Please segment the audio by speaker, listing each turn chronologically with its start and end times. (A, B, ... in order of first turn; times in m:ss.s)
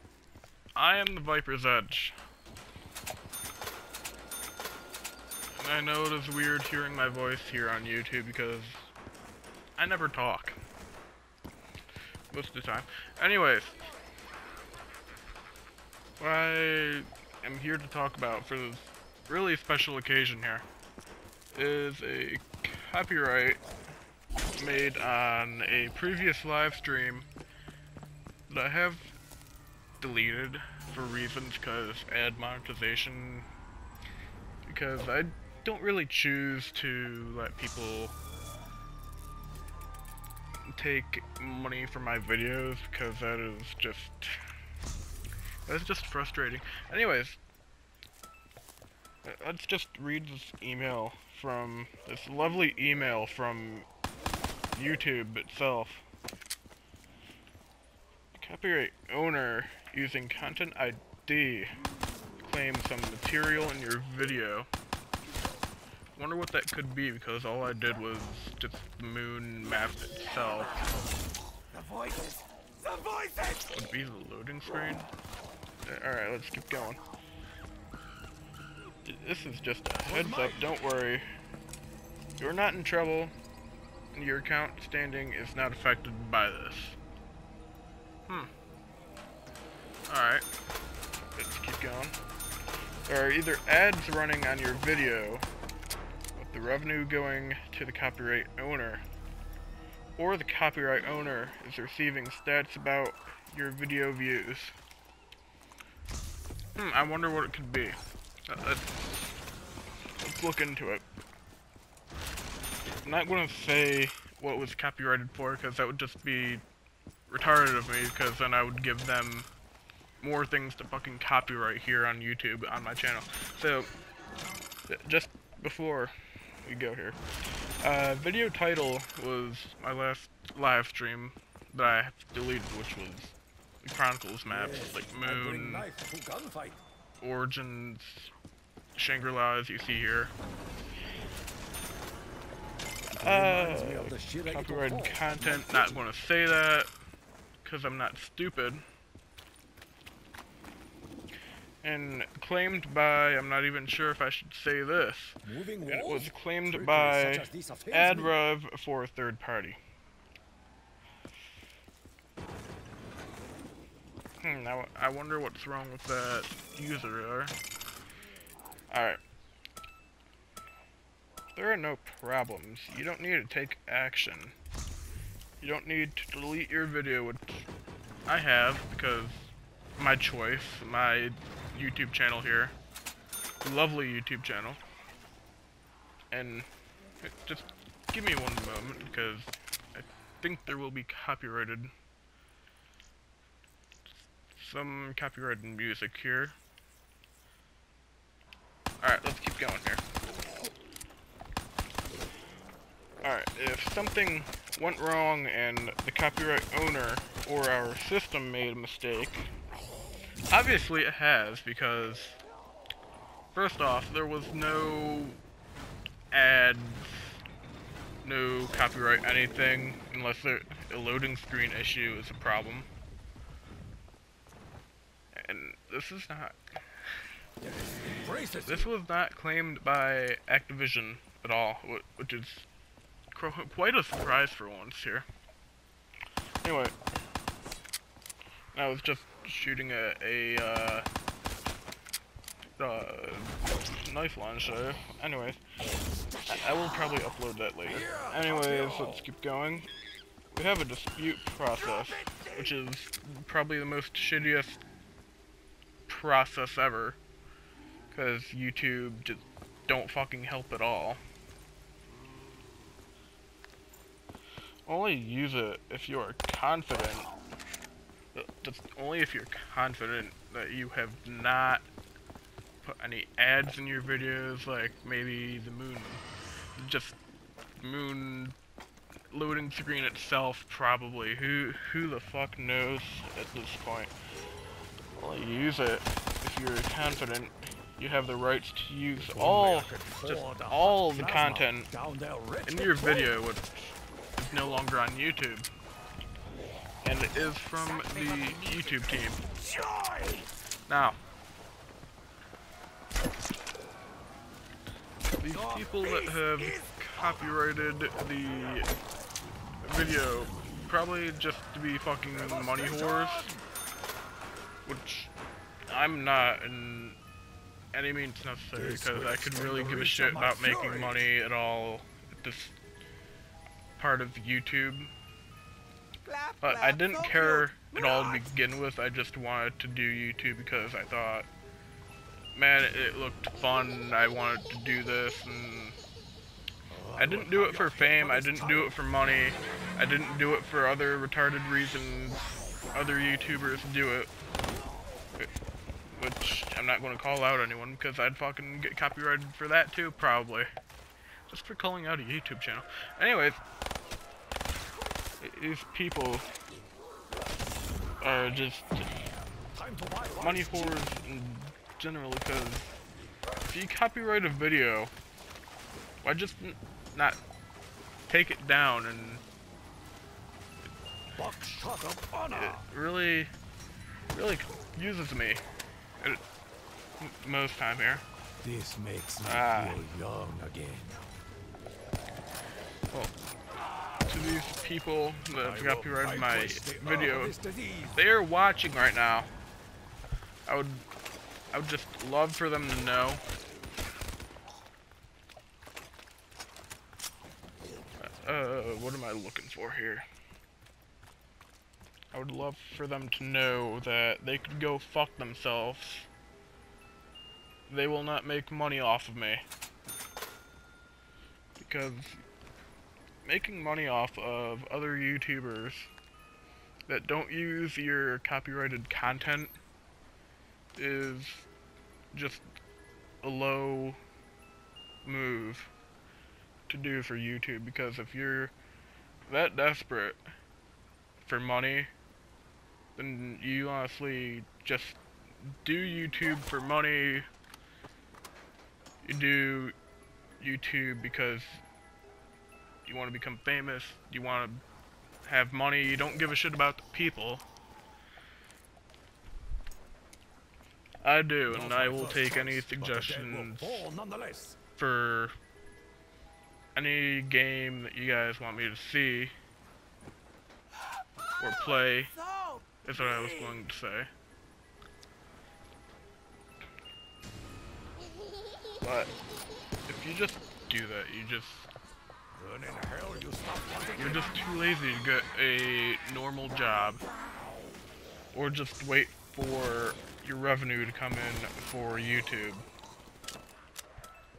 0:00.7-0:02.2 A
0:05.6-0:08.9 A
0:09.8-0:10.6 A
0:12.3-0:13.9 A
0:16.2-0:20.6 A
0:21.5-0:23.6 A
0:24.5-0:27.3 A
0:28.5-0:29.2 A
0:30.0-0:33.5 A
0:34.6-0:38.1 A
0:40.7-0:44.4 A
0:45.7-0:47.4 A
0:49.2-0:53.8 A
0:54.7-0:56.0 A
0:58.3-1:01.7 A
1:02.4-1:04.7 A
1:06.2-1:10.8 A
1:11.7-1:12.4 B
1:12.9-1:13.5 B
1:13.6-1:15.1 A
1:15.8-1:17.0 A
1:19.0-1:21.2 A
1:20.0-1:20.7 B
1:22.4-1:23.3 A
1:24.1-1:27.0 A
1:30.1-1:30.4 A
1:31.4-1:32.2 A
1:33.1-1:35.5 A
1:36.4-1:39.0 A
1:40.2-1:44.7 A
1:46.8-1:48.0 A
1:48.5-1:49.3 A
1:50.2-1:51.0 A
1:53.0-1:56.6 A
1:57.3-1:59.5 A
2:00.2-2:03.9 A
2:04.9-2:06.1 A
2:06.6-2:07.2 A
2:07.8-2:15.9 A
2:14.4-2:16.8 B
2:17.2-2:18.3 A
2:18.9-2:20.3 A
2:23.1-2:26.0 B
2:23.2-2:26.9 A
2:27.6-2:28.8 A
2:31.8-2:39.8 A
2:35.4-2:38.3 B
2:44.4-2:47.5 A
2:48.9-2:49.2 A
2:51.5-2:54.6 A
2:55.6-2:57.7 A
2:58.3-3:02.7 A
3:03.6-3:04.8 A
3:06.3-3:06.7 A
3:07.2-3:11.9 A
3:14.5-3:16.6 A
3:19.0-3:20.0 A
3:23.2-3:29.5 A
3:30.5-3:32.4 A
3:33.5-3:35.4 A
3:36.3-3:37.3 A
3:38.2-3:42.9 A
3:45.3-3:46.6 A
3:48.1-3:48.9 B
3:48.6-3:52.7 A
3:53.3-3:55.2 A
3:56.6-3:56.9 A
3:58.7-4:01.0 A
4:02.8-4:05.6 A
4:06.5-4:09.9 A
4:07.9-4:09.3 B
4:10.5-4:14.8 A
4:16.1-4:17.2 A
4:18.1-4:21.2 A
4:24.8-4:27.4 A
4:28.3-4:31.8 A
4:32.8-4:36.2 A
4:36.8-4:37.2 A
4:37.8-4:38.6 A
4:39.3-4:44.1 A
4:45.1-4:51.9 A
4:49.1-4:53.3 B
4:52.6-4:55.7 A
4:57.0-4:59.5 A
4:59.6-5:00.5 B
5:00.9-5:01.2 A
5:05.4-5:08.9 A
5:05.5-5:06.7 B
5:09.8-5:13.5 A
5:12.3-5:13.6 B
5:14.8-5:15.3 A
5:15.9-5:17.2 A
5:17.9-5:22.8 A
5:18.7-5:21.2 B
5:24.0-5:25.1 A
5:26.3-5:26.6 B
5:26.6-5:31.5 A
5:28.1-5:28.4 B
5:32.5-5:36.0 A
5:36.9-5:38.9 B
5:37.2-5:44.3 A
5:46.1-5:50.7 A
5:51.5-5:53.6 A
5:55.4-5:56.5 A
5:58.2-5:59.1 A
5:59.7-6:01.2 B
6:00.4-6:03.0 A
6:03.6-6:05.1 A
6:06.2-6:07.4 A
6:08.3-6:09.4 A
6:11.4-6:12.8 B
6:12.5-6:13.5 A
6:14.3-6:15.6 A
6:17.2-6:18.2 A
6:18.6-6:21.2 B
6:19.4-6:20.0 A
6:24.2-6:27.5 A
6:25.5-6:28.1 B
6:28.1-6:29.5 A
6:30.6-6:31.0 A
6:31.7-6:33.4 A
6:38.2-6:40.2 A
6:42.3-6:46.3 A
6:47.9-6:49.6 A
6:51.8-6:52.4 A
6:53.4-6:56.1 A
6:57.1-6:59.7 A
7:01.0-7:01.7 A
7:02.3-7:02.6 A
7:03.4-7:04.2 A
7:05.2-7:05.9 A
7:06.9-7:08.7 A
7:09.5-7:10.4 A
7:11.4-7:12.1 A
7:13.2-7:17.4 A
7:19.2-7:19.9 A
7:20.6-7:21.8 A
7:23.0-7:24.8 A
7:25.4-7:27.6 A
7:31.2-7:34.1 A
7:31.7-7:34.8 B
7:34.9-7:35.5 A
7:36.9-7:39.5 A
7:41.6-7:42.3 A
7:43.0-7:44.3 A
7:49.0-7:49.3 A
7:50.1-7:51.9 A
7:52.5-7:54.6 B
7:54.2-7:57.2 A
7:58.5-8:02.8 A